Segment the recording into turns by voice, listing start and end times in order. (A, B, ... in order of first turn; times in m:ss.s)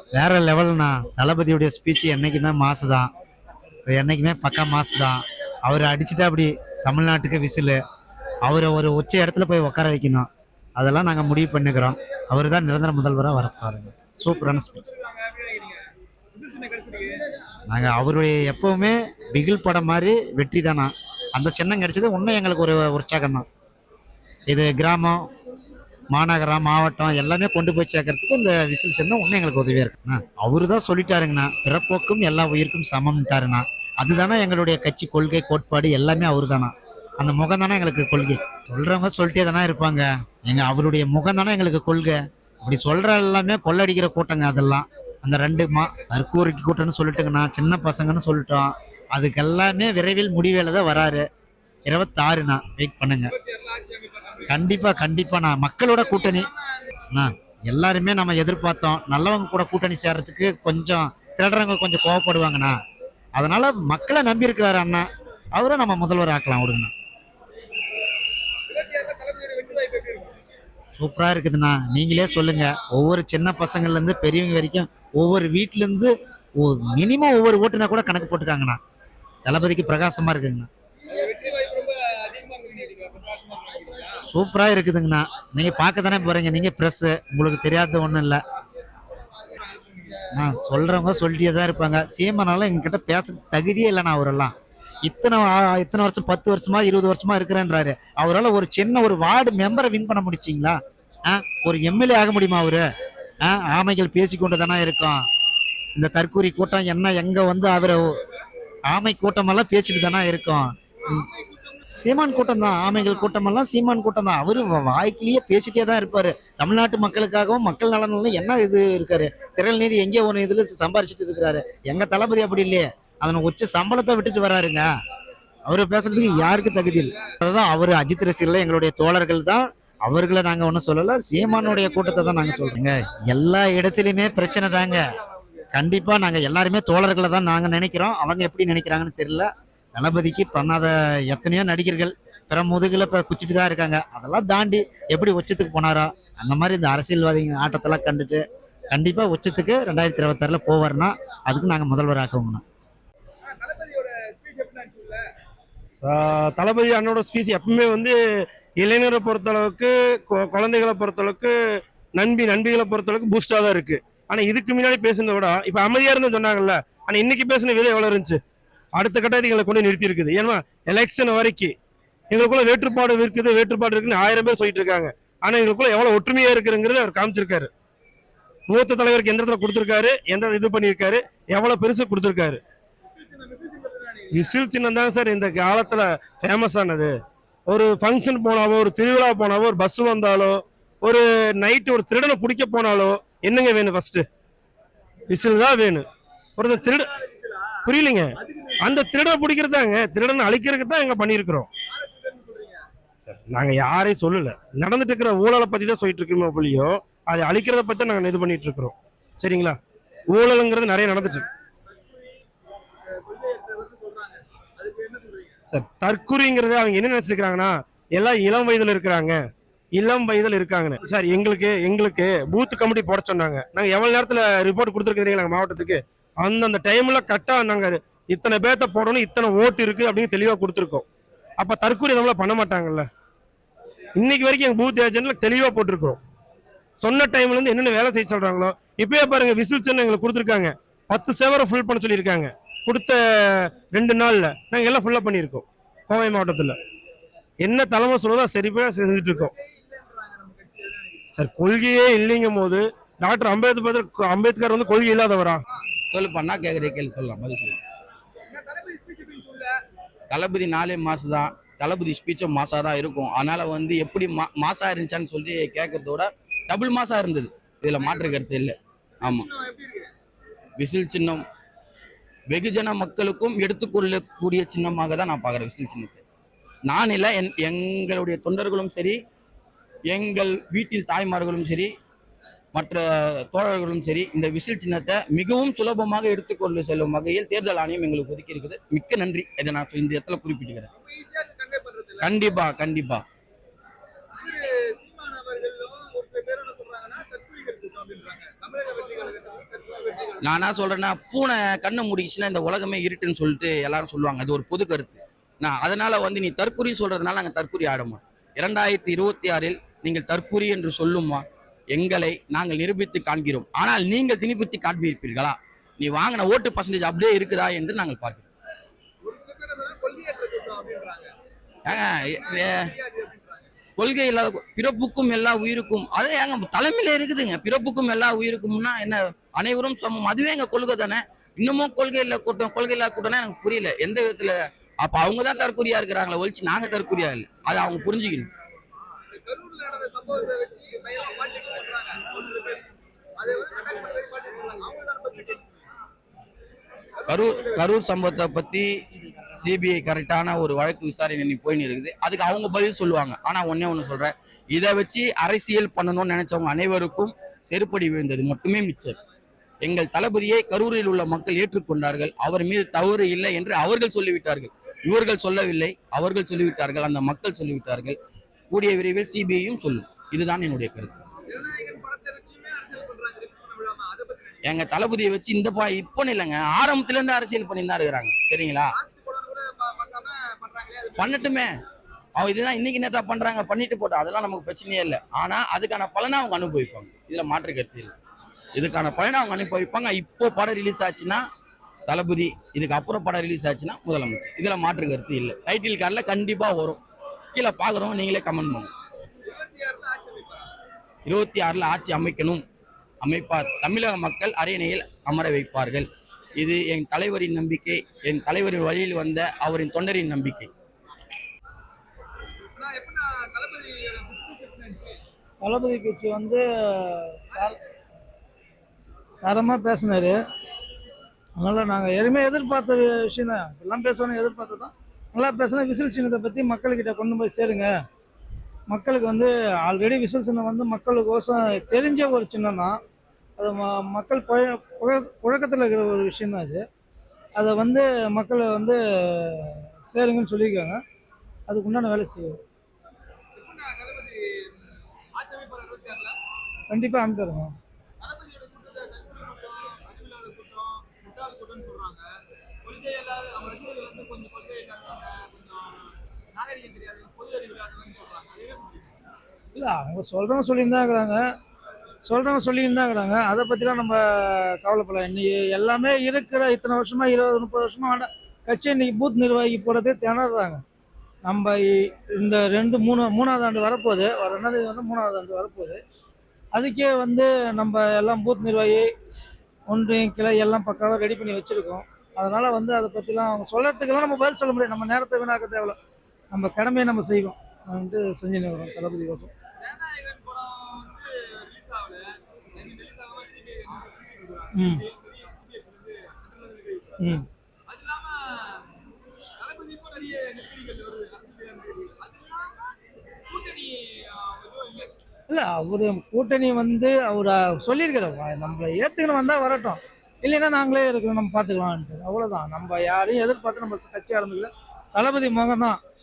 0:00.1-0:03.1 A
0:03.8-0:07.8 A
0:08.4-0:14.8 A
0:14.2-0:17.2 B
0:17.7-0:23.5 A
0:24.5-0:25.3 A
0:26.1-0:51.2 A
0:51.8-0:53.3 A
0:53.4-0:54.9 B
0:54.5-0:56.5 A
0:55.9-0:56.7 B
0:57.1-1:02.8 A
1:03.3-1:06.9 A
1:08.7-1:10.4 B
1:11.0-1:18.8 A
1:19.4-1:20.7 A
1:21.0-1:24.2 B
1:24.3-1:28.4 A
1:29.5-1:30.2 B
1:30.3-1:42.8 A
1:43.4-1:45.2 A
1:45.9-1:48.2 A
1:48.9-1:51.2 A
1:51.1-1:51.9 B
1:51.9-2:04.9 A
2:05.6-2:15.0 A
2:06.1-2:07.3 B
2:11.4-2:12.8 B
2:14.3-2:15.7 B
2:15.7-2:32.6 A
2:33.4-2:35.2 B
2:36.0-2:48.4 C
2:48.9-2:51.7 C
2:52.3-2:57.7 C
2:58.7-3:02.6 C
3:03.1-3:04.5 B
3:04.3-3:14.2 C
3:15.3-3:16.1 C
3:16.6-3:17.1 C
3:16.6-3:17.9 B
3:17.8-3:21.7 C
3:18.4-3:19.1 B
3:21.9-3:22.8 B
3:23.2-3:29.8 C
3:30.3-3:31.4 C
3:31.0-3:32.4 B
3:33.0-3:35.6 B
3:35.7-3:39.4 C
3:39.9-3:51.0 C
3:51.6-3:53.1 C
3:54.2-3:56.2 C
3:57.0-4:06.8 C
4:07.6-4:09.5 C
4:09.2-4:11.3 B
4:11.3-4:15.6 C
4:16.1-4:17.8 D
4:18.5-4:19.7 B
4:20.3-4:29.5 D
4:28.0-4:28.7 B
4:29.2-4:30.1 B
4:30.8-4:31.4 D
4:32.5-4:36.2 D
4:36.8-4:39.2 D
4:40.1-4:41.9 D
4:42.7-4:50.9 D
4:51.0-4:52.5 B
4:52.2-4:53.2 D
4:54.4-5:00.5 B
5:00.4-5:18.5 D
5:19.2-5:21.3 B
5:21.8-5:22.8 D
5:21.9-5:23.7 B
5:24.0-5:38.5 D
5:39.3-5:42.8 B
5:43.4-5:45.8 B
5:47.2-5:47.9 B
5:47.3-5:48.9 D
5:49.5-5:59.2 D
5:59.8-6:08.2 D
6:08.7-6:11.2 D
6:11.4-6:14.6 B
6:14.6-6:18.9 D
6:18.9-6:21.6 B
6:21.2-6:21.7 D
6:22.4-6:28.1 D
6:28.7-6:31.4 D
6:32.1-6:37.0 D
6:37.5-6:38.9 D
6:39.4-6:40.7 B
6:41.2-6:42.6 D
6:43.2-6:50.7 D
6:52.8-6:55.2 B
6:55.6-6:57.8 E
6:59.4-7:00.4 E
7:01.6-7:07.9 E
7:08.9-7:13.0 E
7:13.6-7:16.8 E
7:17.6-7:21.0 E
7:21.7-7:22.6 E
7:23.6-7:26.4 B
7:26.9-7:27.7 E
7:28.2-7:32.3 B
7:32.8-7:39.1 B
7:39.7-7:41.4 E
7:42.2-7:50.8 E
7:51.4-7:56.0 E
7:56.7-7:59.1 E
7:59.9-8:06.0 E
8:06.5-8:09.5 E
8:09.8-8:17.3 B
8:14.7-8:15.0 E
8:17.2-8:17.4 E
8:17.9-8:18.9 B
8:19.6-8:22.8 B
8:23.5-8:25.1 B
8:25.5-8:36.0 E